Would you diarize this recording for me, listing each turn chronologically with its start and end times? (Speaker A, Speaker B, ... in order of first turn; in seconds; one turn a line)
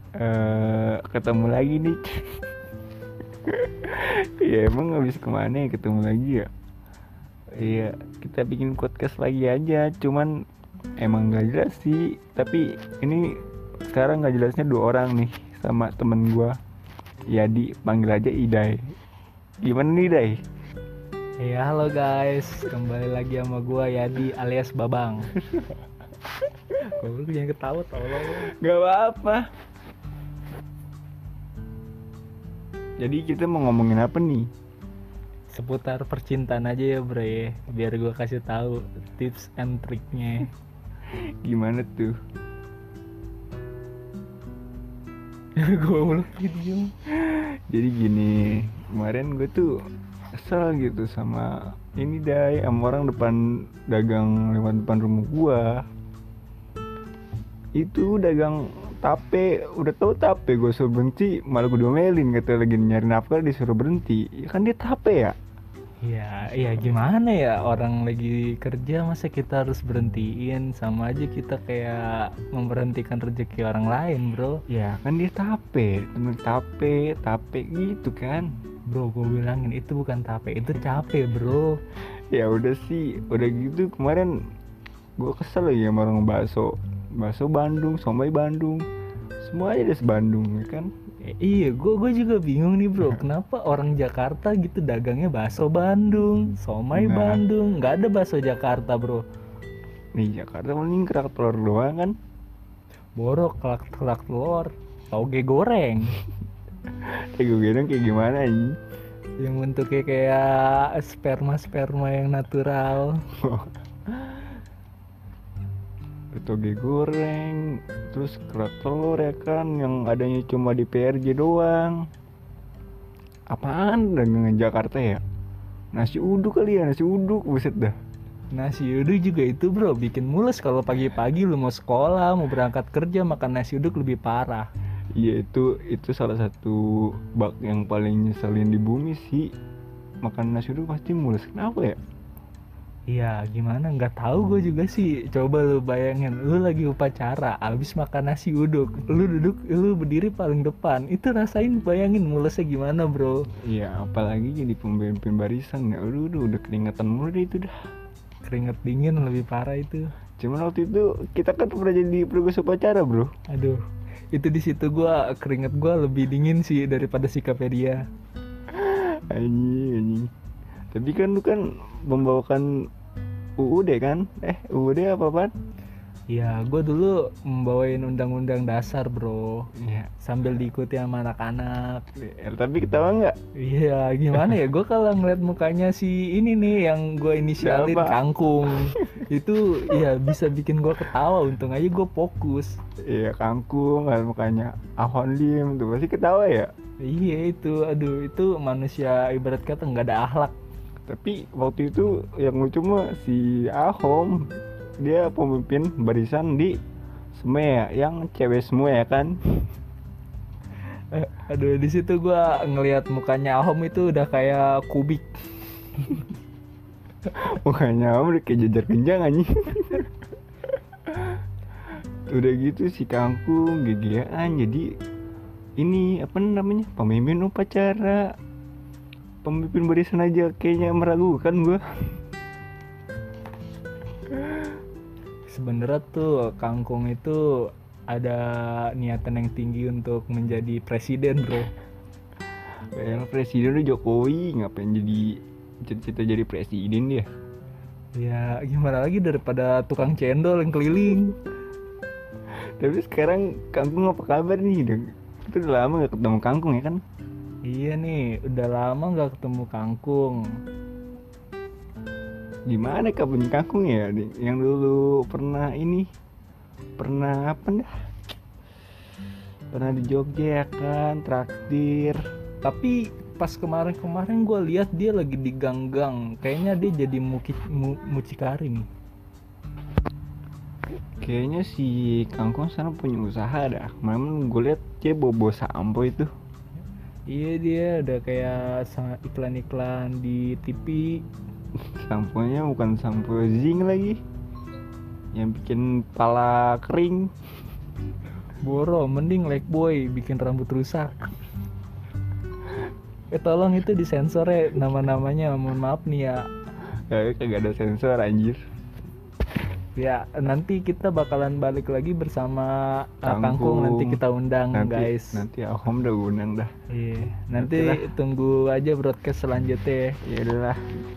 Speaker A: 0.2-2.4
Speaker A: 3.5-6.5
Speaker A: 7.5-10.3
Speaker A: 11.0-16.6
Speaker A: 17.3-18.9
Speaker A: 19.6-20.4
Speaker B: 21.4-25.3
Speaker B: 26.8-28.5
Speaker A: 28.2-29.5
Speaker A: 33.0-34.5
Speaker B: 35.5-40.5
Speaker A: 41.4-42.1
Speaker B: 45.6-46.9
Speaker A: 47.1-49.7
Speaker A: 50.3-55.8
Speaker A: 57.8-65.3
Speaker B: 66.0-74.6
Speaker A: 74.7-78.5
Speaker B: 78.9-81.8
Speaker A: 82.3-84.4
Speaker A: 85.2-88.8
Speaker A: 89.4-90.9
Speaker B: 91.3-99.2
Speaker A: 96.9-97.4
Speaker A: 100.2-102.2
Speaker B: 103.2-106.1
Speaker A: 107.0-108.8
Speaker B: 109.4-113.2
Speaker A: 113.3-114.5
Speaker A: 116.3-122.0
Speaker A: 123.5-125.2
Speaker A: 125.9-128.0
Speaker B: 128.5-134.7
Speaker A: 135.2-139.5
Speaker A: 140.2-142.0
Speaker B: 143.1-153.5
Speaker A: 153.6-157.7
Speaker B: 158.4-160.1
Speaker A: 160.4-163.3
Speaker B: 163.5-163.8
Speaker B: 164.3-168.0
Speaker A: 168.7-170.3
Speaker A: 170.9-172.7
Speaker A: 173.6-175.5
Speaker B: 176.3-179.7
Speaker A: 179.8-180.1
Speaker B: 180.2-182.0
Speaker A: 182.2-183.4
Speaker B: 183.6-192.8
Speaker A: 187.6-188.2
Speaker A: 188.9-189.2
Speaker A: 193.1-196.7
Speaker B: 197.0-200.5
Speaker A: 201.1-204.5
Speaker A: 205.0-206.8
Speaker A: 207.3-209.6
Speaker B: 210.9-215.3
Speaker B: 215.9-216.2
Speaker A: 217.2-220.1
Speaker A: 221.1-221.4
Speaker A: 222.3-224.8
Speaker A: 225.8-228.3
Speaker A: 229.4-231.8
Speaker B: 235.5-237.4
Speaker B: 238.1-241.7
Speaker A: 242.8-247.3
Speaker B: 248.2-251.4
Speaker A: 252.5-257.0
Speaker B: 257.7-260.4
Speaker A: 262.7-266.1
Speaker A: 267.0-267.9
Speaker A: 269.7-272.2
Speaker B: 272.6-278.9
Speaker A: 281.2-286.3
Speaker B: 287.3-291.2
Speaker A: 291.8-294.2
Speaker A: 295.3-297.3
Speaker B: 298.6-301.2
Speaker B: 303.3-306.5
Speaker A: 306.9-308.6
Speaker B: 310.0-315.4
Speaker A: 313.2-314.2
Speaker A: 314.7-316.7
Speaker B: 316.9-320.2
Speaker A: 317.6-318.0
Speaker A: 320.2-320.9